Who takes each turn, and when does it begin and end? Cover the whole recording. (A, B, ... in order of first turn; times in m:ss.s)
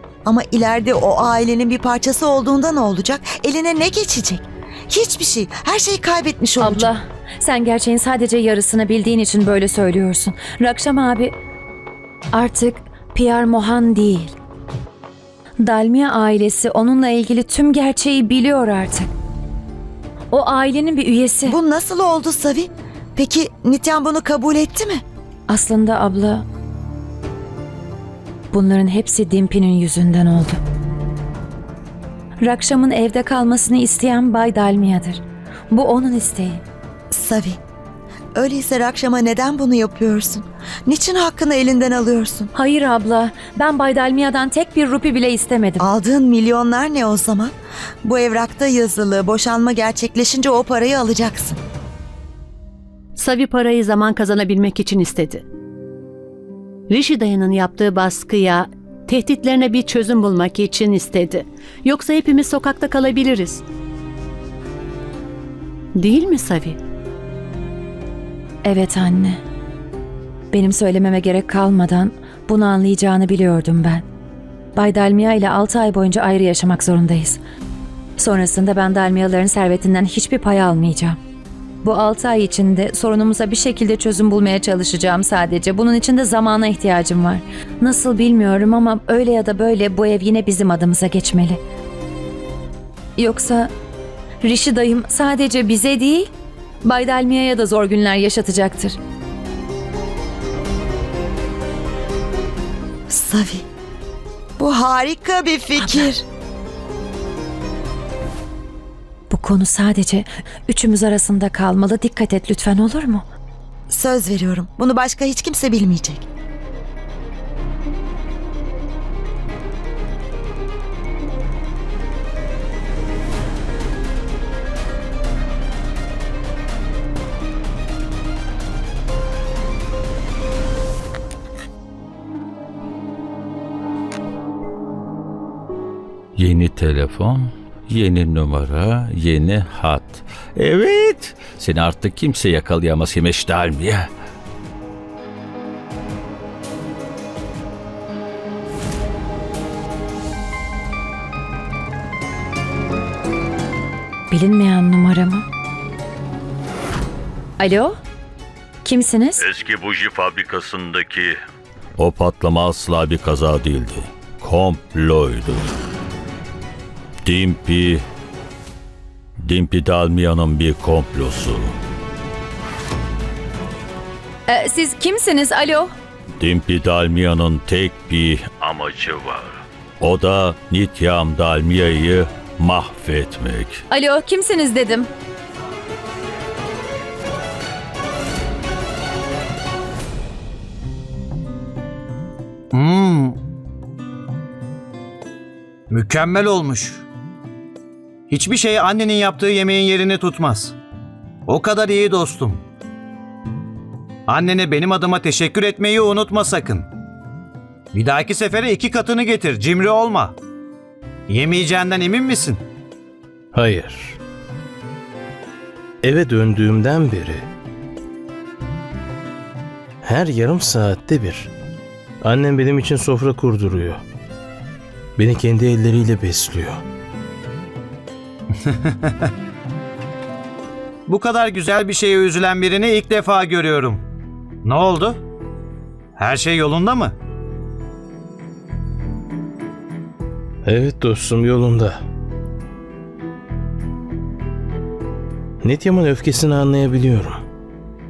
0:00.2-0:06.9 A
0:06.6-0:11.3 B
0:12.3-0:14.4 B
0:15.6-0:19.1 B
0:20.3-0:21.6 B
0:21.4-0:25.0 A
0:25.5-0:26.4 B
0:28.5-0:30.6 B
0:32.4-0:36.6 B
0:37.1-0:37.6 A
0:38.3-0:42.5 A
0:42.5-0:45.8 B
0:45.8-0:51.6 A
0:53.2-0:55.4 C
0:56.9-1:03.6 C
1:05.9-1:06.8 C
1:08.6-1:09.4 B
1:10.5-1:14.0 B
1:14.7-1:17.4 B
1:18.2-1:21.2 B
1:21.8-1:31.6 B
1:33.2-1:33.7 B
1:34.4-1:36.3 B
1:36.8-1:39.0 B
1:43.1-1:43.6 A
1:44.6-1:46.2 A
1:49.3-1:53.2 B
1:53.9-1:56.2 A
2:16.4-2:24.1 D
2:34.3-2:35.4 B
2:37.6-2:38.0 B
2:38.8-2:39.4 B
2:39.4-2:41.4 D
2:42.0-2:45.7 D
2:47.2-2:48.0 D
2:49.4-2:51.7 D
2:54.5-2:55.9 B
2:56.4-3:03.8 D
3:03.9-3:05.1 B
3:12.7-3:13.4 E
3:15.9-3:17.0 E
3:18.3-3:20.7 E
3:21.4-3:22.6 E
3:24.3-3:26.9 E
3:27.9-3:30.4 E
3:31.3-3:32.6 E
3:33.5-3:34.2 F
3:36.0-3:37.5 F
3:40.0-3:41.5 F
3:42.2-3:44.0 F
3:45.2-3:46.8 F
3:48.7-3:49.1 E
3:51.1-3:54.0 E
3:54.6-3:55.2 E
3:56.2-3:57.1 E
4:00.6-4:02.0 F
4:05.6-4:07.4 F